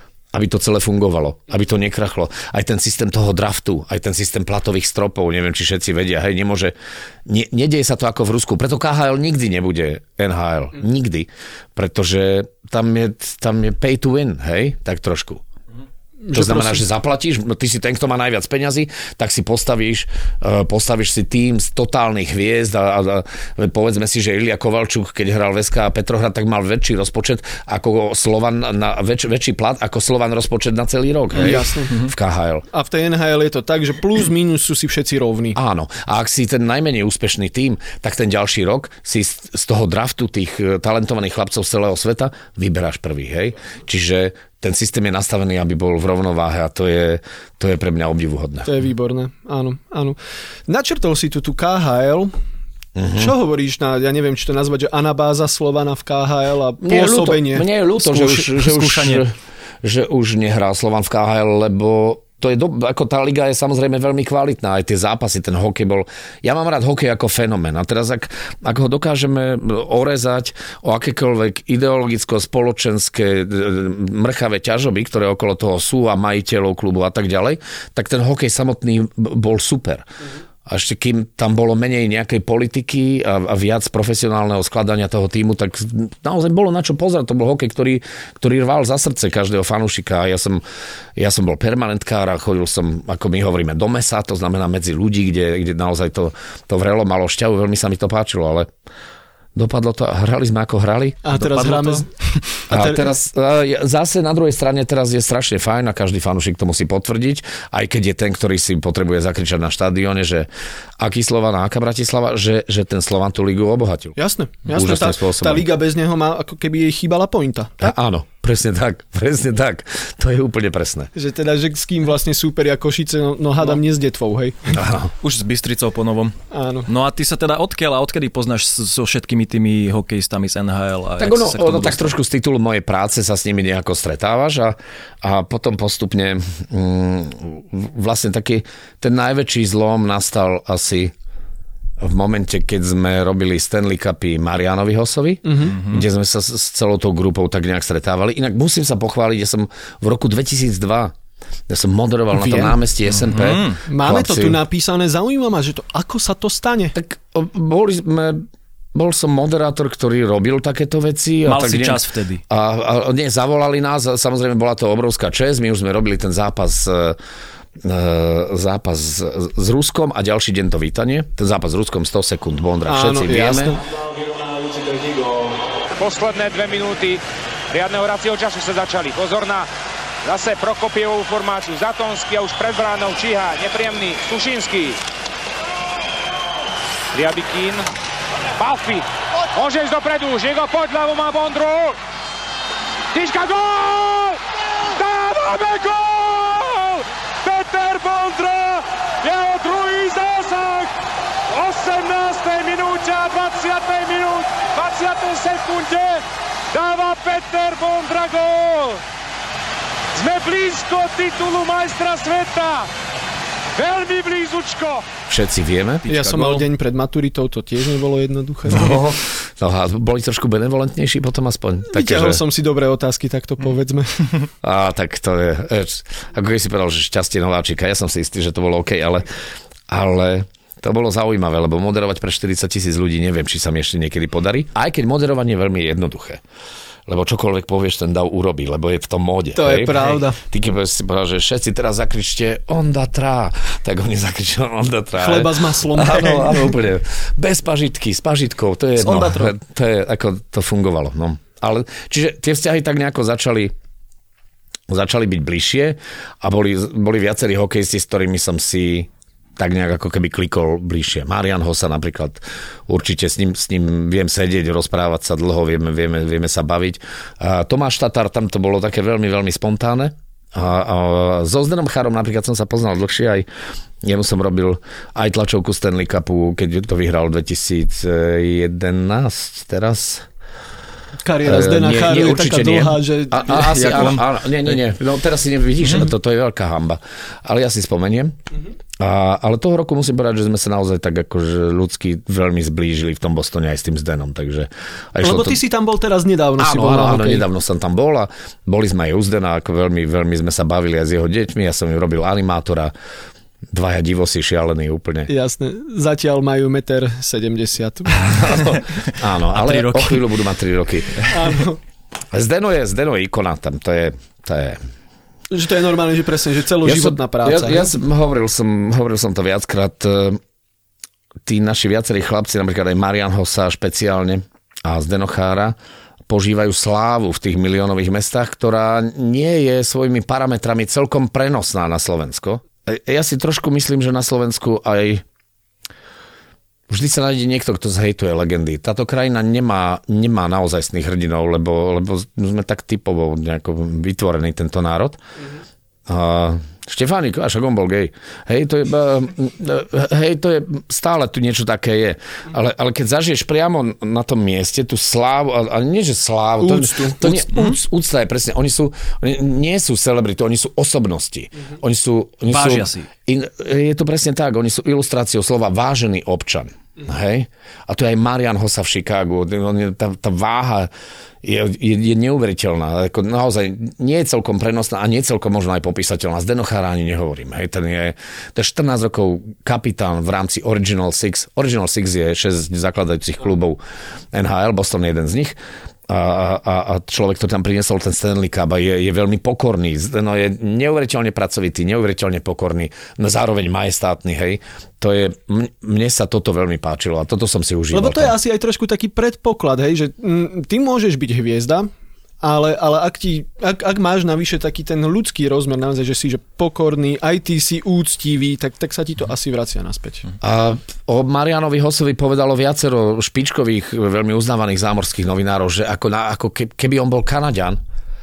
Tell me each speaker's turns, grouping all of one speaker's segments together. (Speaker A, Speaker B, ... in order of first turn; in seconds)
Speaker A: 0.3-6.8, 7.3-15.4, 16.3-32.7, 35.5-48.7, 53.0-53.3, 56.8-80.0, 80.7-90.6, 91.2-98.7, 99.5-101.2, 102.7-110.5, 111.0-114.2, 114.7-115.6, 117.8-121.1, 124.7-125.1, 131.2-141.1, 142.0-151.1, 151.7-154.6, 156.9-167.2, 167.8-173.8, 215.3-216.1, 218.7-222.4, 224.6-229.3, 229.9-236.4, 237.1-253.7, 254.9-273.5, 274.0-280.3, 281.4-288.4, 289.0-295.6, 296.6-302.9, 303.7-305.3, 308.1-311.3, 312.3-314.8, 316.8-320.4, 321.4-325.8, 326.3-335.2, 336.9-345.2, 346.1-370.9, 371.4-383.8, 384.3-385.6, 386.1-398.4, 410.4-417.8
Speaker B: 16.2-16.8, 31.3-32.0, 32.7-35.6, 48.6-52.3, 53.1-57.7, 101.2-102.1, 102.7-103.1, 114.2-117.9, 121.2-124.8, 126.5-126.9, 145.4-145.8, 152.4-152.7, 153.9-157.0, 172.9-173.8, 216.1-219.0, 221.9-224.4, 239.5-240.4, 245.2-246.7, 281.2-284.2, 295.2-297.5, 305.3-308.7, 311.3-311.8, 315.5-317.9, 356.6-357.7, 397.9-401.9, 402.4-410.3
Speaker C: 58.0-59.2, 101.4-102.1, 125.2-126.3, 126.9-132.1, 145.8-146.1, 153.1-153.8, 161.4-162.4, 216.1-216.7, 283.7-284.2, 285.8-286.1, 309.5-310.3, 362.5-363.1
Speaker D: 174.5-175.1, 176.0-179.7, 180.2-185.0, 187.1-187.9, 188.6-192.0, 193.1-194.4, 194.9-200.9, 201.5-209.0, 210.2-212.9, 213.8-215.1